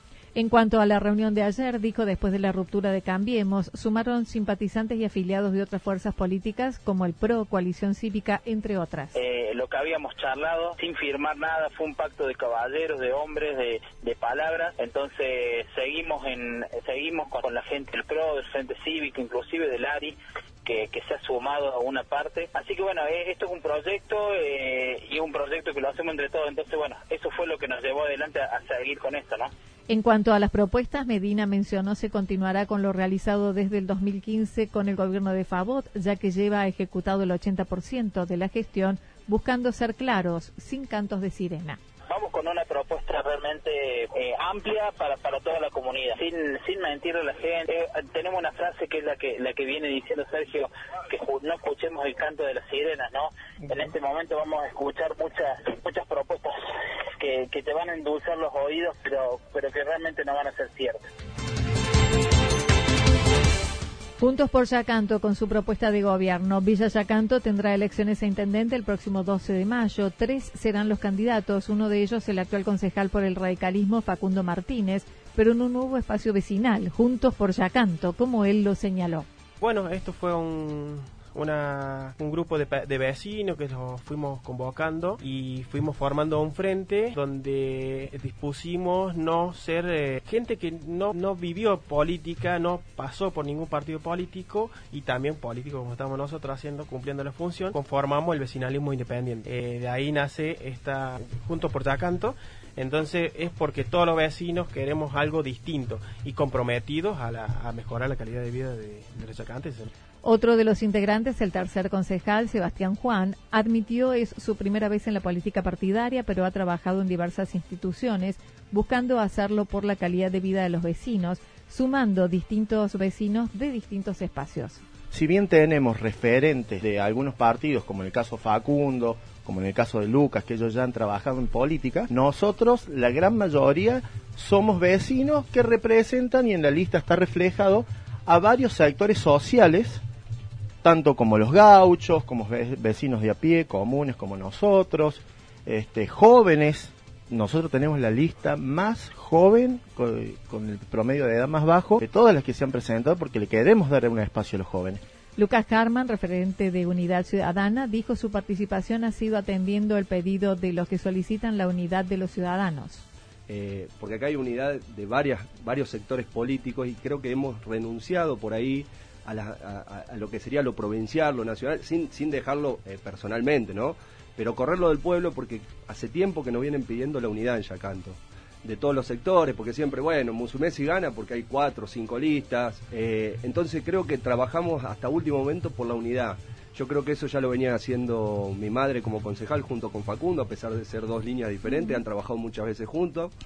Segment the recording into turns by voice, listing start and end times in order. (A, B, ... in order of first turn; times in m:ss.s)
0:00.4-0:09.1 A
0:09.1-0:29.5 B
0:29.9-0:41.8 A
0:42.1-0:56.6 B
0:57.2-1:01.1 B
1:04.2-1:19.3 A
1:19.6-1:49.9 C
1:50.2-2:04.8 A
2:05.1-2:20.0 D
2:20.8-2:35.0 D
2:35.4-2:43.0 A
2:43.5-3:13.3 E